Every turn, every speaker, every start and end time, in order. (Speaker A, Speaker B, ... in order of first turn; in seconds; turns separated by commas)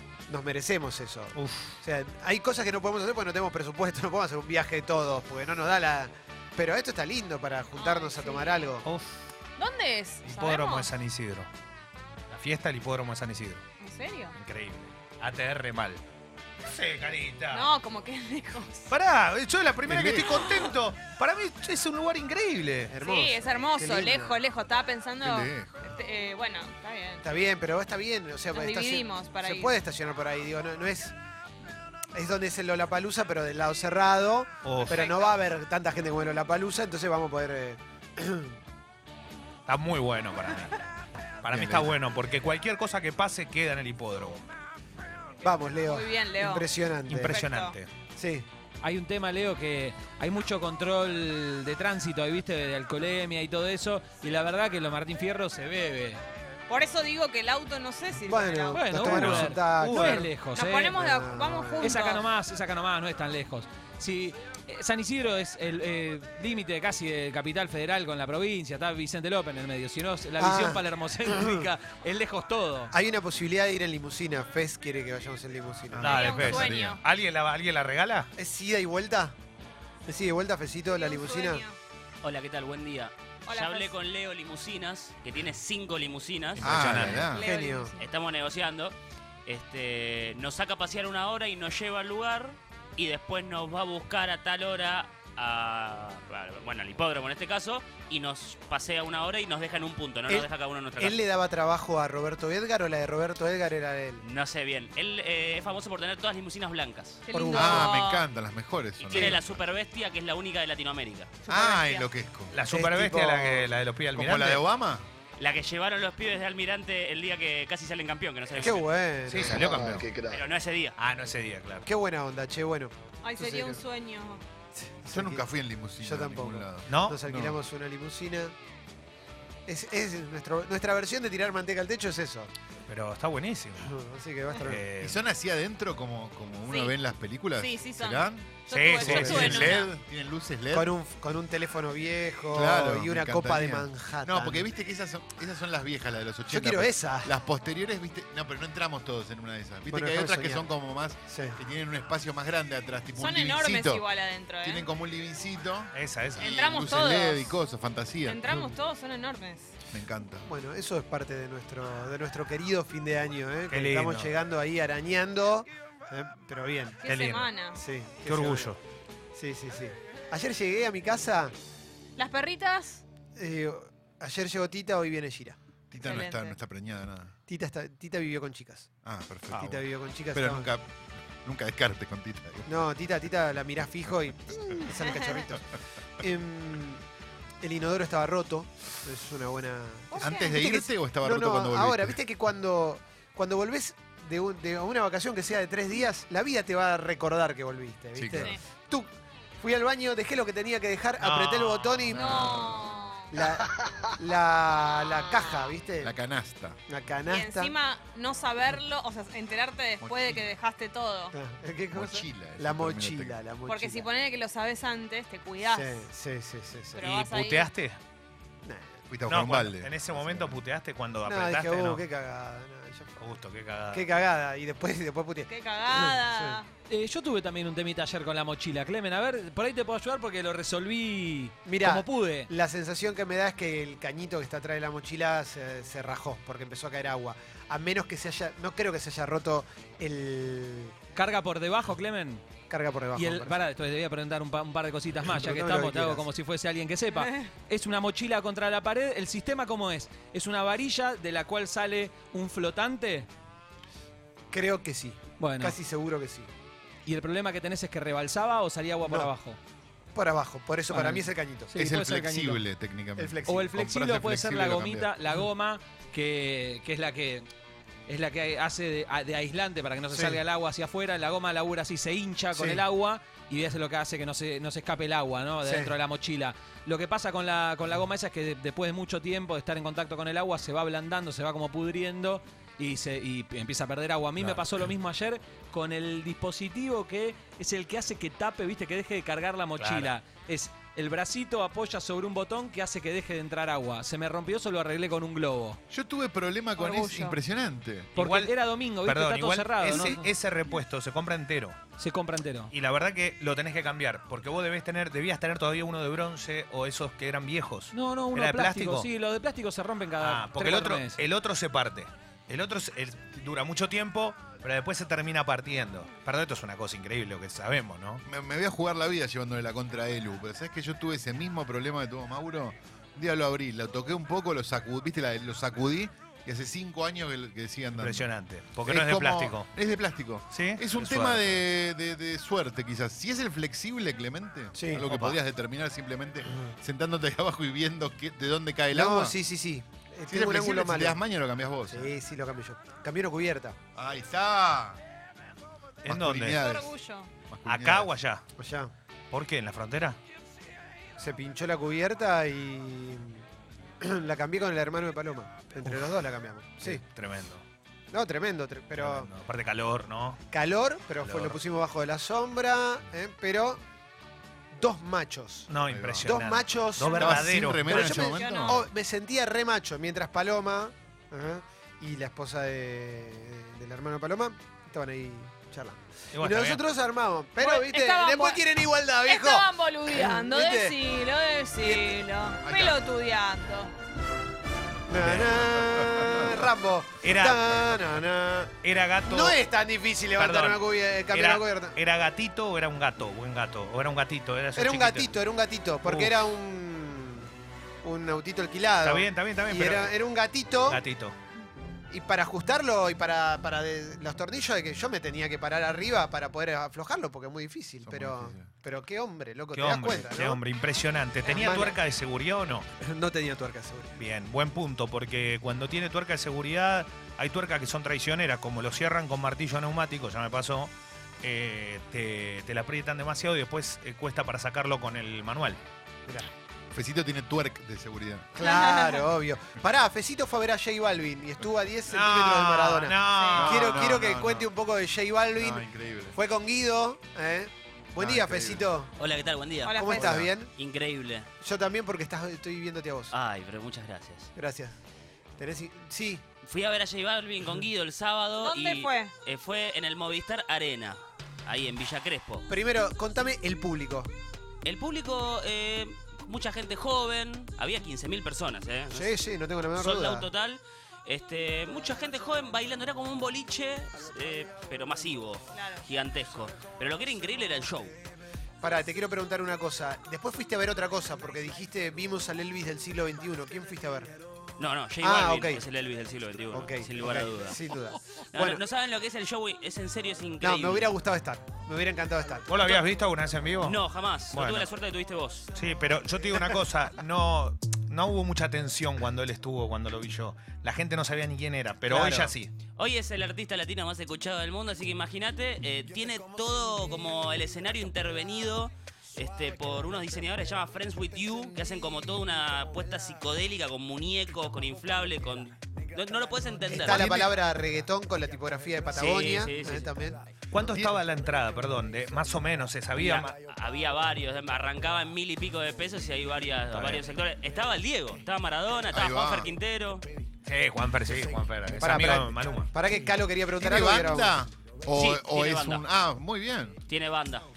Speaker A: 0.3-8.8, Speaker B: 1.3-1.8, Speaker C: 7.7-8.7, Speaker B: 8.8-9.2, Speaker C: 9.6-10.9, Speaker B: 10.2-11.5, Speaker B: 12.3-13.6, Speaker C: 13.8-14.3, Speaker B: 14.3-16.0, Speaker B: 16.6-17.7, Speaker C: 17.5-18.9, Speaker B: 18.9-22.9, Speaker D: 19.9-20.3, Speaker A: 22.9-24.4, Speaker C: 23.0-27.2, Speaker D: 25.2-25.7, Speaker A: 27.2-31.1, Speaker C: 28.5-29.7, Speaker A: 32.1-38.6, Speaker B: 34.6-35.1, Speaker C: 34.9-35.4, Speaker B: 39.7-40.8, Speaker B: 41.4-44.4, Speaker D: 41.5-41.9, Speaker A: 45.4-47.4, Speaker C: 45.9-46.7, Speaker B: 47.1-47.9, Speaker C: 47.2-47.7, Speaker A: 48.1-48.5, Speaker E: 48.8-56.2, Speaker C: 56.7-58.8, Speaker A: 58.2-60.3, Speaker E: 58.7-61.0, Speaker B: 59.0-60.3, Speaker C: 60.5-62.2, Speaker A: 60.9-62.0, Speaker E: 61.8-72.9, Speaker A: 70.4-71.7, Speaker A: 72.9-76.1, Speaker D: 75.9-77.0, Speaker C: 76.0-77.0, Speaker B: 76.0-78.3, Speaker A: 78.3-79.3, Speaker A: 80.0-81.6, Speaker C: 80.9-81.8, Speaker F: 82.2-87.2, Speaker C: 83.5-83.9, Speaker B: 86.6-87.3, Speaker D: 86.6-87.5, Speaker C: 87.3-88.0, Speaker A: 87.3-87.9, Speaker F: 88.0-88.9, Speaker F: 89.5-101.2, Speaker A: 100.3-104.2, Speaker F: 104.2-107.2, Speaker C: 107.3-108.2, Speaker A: 107.3-107.9, Speaker D: 107.5-109.6, Speaker F: 109.0-111.3, Speaker A: 109.1-109.4, Speaker D: 111.5-112.5, Speaker A: 111.5-112.0, Speaker C: 111.5-112.0, Speaker B: 112.5-114.6, Speaker A: 112.7-113.7, Speaker D: 114.1-115.0, Speaker F: 115.4-118.9, Speaker A: 118.5-119.7, Speaker B: 119.3-120.1, Speaker F: 120.1-121.0, Speaker B: 121.0-121.9, Speaker A: 121.8-123.8, Speaker C: 123.2-124.4, Speaker A: 124.7-125.5, Speaker D: 125.1-127.5, Speaker A: 126.0-128.5, Speaker B: 126.9-127.5, Speaker A: 129.7-132.5, Speaker B: 132.9-133.9, Speaker A: 133.8-134.8, Speaker B: 134.6-135.2, Speaker D: 135.0-140.9, Speaker C: 136.7-136.9, Speaker C: 137.6-139.9, Speaker B: 138.7-139.8, Speaker A: 139.1-139.6, Speaker A: 140.7-144.7, Speaker D: 142.5-154.1, Speaker A: 146.5-147.3, Speaker A: 149.9-150.7, Speaker A: 151.3-151.6, Speaker C: 153.2-154.8, Speaker D: 154.6-158.5, Speaker B: 155.9-156.5, Speaker C: 156.4-157.6, Speaker C: 158.2-159.7, Speaker D: 159.9-160.5, Speaker A: 160.4-167.0, Speaker B: 163.7-164.3, Speaker C: 167.0-167.8, Speaker B: 167.0-167.5, Speaker A: 167.7-168.7, Speaker B: 168.2-168.8, Speaker A: 169.3-171.5, Speaker C: 172.2-173.0, Speaker A: 173.3-175.6, Speaker D: 175.9-177.3, Speaker C: 176.0-176.6, Speaker A: 177.5-178.9, Speaker D: 179.0-182.8, Speaker A: 179.5-180.7, Speaker A: 182.7-187.0, Speaker A: 187.6-202.8, Speaker C: 190.1-190.5, Speaker D: 190.2-192.2, Speaker D: 198.1-198.5, Speaker B: 201.2-202.5, Speaker C: 202.1-203.3, Speaker D: 202.3-202.7, Speaker A: 203.3-206.1, Speaker D: 206.0-206.8, Speaker A: 206.9-207.7, Speaker C: 207.3-211.3, Speaker D: 210.0-210.4, Speaker A: 211.3-214.1, Speaker D: 211.9-213.4, Speaker C: 213.7-216.1, Speaker A: 215.6-217.0, Speaker C: 216.9-217.7, Speaker B: 217.0-218.0, Speaker A: 218.6-219.0, Speaker D: 219.1-220.6, Speaker B: 219.3-222.0, Speaker A: 221.2-223.2, Speaker B: 223.2-224.1, Speaker A: 223.9-226.6, Speaker C: 225.5-226.7, Speaker E: 226.9-232.5, Speaker A: 231.6-241.0, Speaker E: 241.1-242.4, Speaker A: 242.7-243.6, Speaker E: 243.1-253.3, Speaker A: 245.2-246.3, Speaker C: 247.1-247.5, Speaker A: 254.5-256.5, Speaker E: 255.4-255.8, Speaker E: 257.0-259.6, Speaker A: 259.1-259.3, Speaker A: 260.1-261.8, Speaker E: 260.9-262.6, Speaker D: 261.7-265.1, Speaker A: 263.2-263.7, Speaker E: 263.5-267.5, Speaker E: 268.1-295.8, Speaker A: 270.1-270.4, Speaker A: 272.5-272.8, Speaker A: 275.6-275.9, Speaker B: 289.8-290.1, Speaker D: 295.9-298.1, Speaker C: 296.8-297.4, Speaker E: 298.1-300.3, Speaker B: 298.1-301.8, Speaker A: 299.8-300.2, Speaker E: 302.0-302.7, Speaker B: 302.7-309.1, Speaker E: 307.9-311.2, Speaker B: 310.2-318.2, Speaker D: 318.2-328.3, Speaker B: 327.9-329.7, Speaker D: 328.8-339.4, Speaker B: 330.5-331.6, Speaker A: 334.7-335.1, Speaker B: 335.1-335.4, Speaker A: 338.9-341.2, Speaker D: 340.3-342.1, Speaker A: 341.9-343.8, Speaker D: 343.9-345.0, Speaker B: 346.0-346.6, Speaker D: 346.1-346.9, Speaker C: 346.5-347.3, Speaker D: 347.5-348.1, Speaker B: 347.6-348.4, Speaker A: 348.6-348.9, Speaker B: 349.3-350.2, Speaker A: 351.2-353.4, Speaker A: 354.0-357.0, Speaker B: 356.8-357.6, Speaker A: 358.1-359.3, Speaker B: 358.9-360.4, Speaker A: 360.5-363.8, Speaker B: 361.2-361.6, Speaker A: 364.7-365.7, Speaker B: 365.7-368.5, Speaker D: 365.9-366.4, Speaker A: 366.2-381.0, Speaker D: 367.0-368.8, Speaker C: 367.9-368.8, Speaker B: 376.3-376.8, Speaker C: 377.6-378.6, Speaker C: 379.2-383.9, Speaker A: 381.8-382.1, Speaker D: 382.6-383.0, Speaker A: 385.1-392.0, Speaker D: 385.2-386.5, Speaker B: 387.2-388.0, Speaker B: 388.8-389.6, Speaker B: 390.3-395.3, Speaker A: 394.7-397.5, Speaker B: 396.0-396.4, Speaker A: 398.0-401.0, Speaker B: 399.0-400.2, Speaker B: 400.9-401.4, Speaker A: 402.1-410.6, Speaker D: 408.0-408.7, Speaker B: 409.7-412.9, Speaker C: 411.5-411.9, Speaker A: 411.5-412.0, Speaker A: 413.0-414.2, Speaker B: 414.2-425.8, Speaker A: 426.2-426.5, Speaker D: 426.9-428.5, Speaker A: 428.6-439.1, Speaker C: 428.6-429.2, Speaker B: 432.1-434.2, Speaker C: 433.3-433.7, Speaker D: 433.5-434.7, Speaker D: 435.6-436.4, Speaker D: 438.2-438.9, Speaker F: 439.2-441.5, Speaker C: 439.8-440.3, Speaker A: 439.9-440.7, Speaker D: 440.2-440.5, Speaker A: 441.6-443.3, Speaker F: 443.3-444.5, Speaker A: 444.6-444.9, Speaker A: 445.6-446.4, Speaker F: 446.6-452.7, Speaker C: 448.6-449.3, Speaker A: 452.7-454.3, Speaker F: 454.8-459.3, Speaker A: 459.1-460.5, Speaker F: 459.9-468.1, Speaker C: 465.7-466.1, Speaker A: 468.8-474.3, Speaker F: 474.8-477.8, Speaker A: 475.2-475.8, Speaker A: 476.7-478.8, Speaker F: 478.5-481.1, Speaker A: 480.6-482.9, Speaker B: 482.7-484.0, Speaker F: 483.8-485.7, Speaker B: 484.5-484.9, Speaker B: 485.7-492.7, Speaker F: 492.1-507.5, Speaker A: 506.9-510.5, Speaker D: 507.0-507.5, Speaker F: 509.1-510.1, Speaker B: 510.7-513.5, Speaker D: 510.8-511.2, Speaker F: 513.2-520.3, Speaker B: 516.9-517.2, Speaker D: 519.1-519.7, Speaker B: 520.6-522.9, Speaker A: 522.0-524.5, Speaker D: 523.2-527.0, Speaker F: 525.1-526.0, Speaker F: 527.1-527.7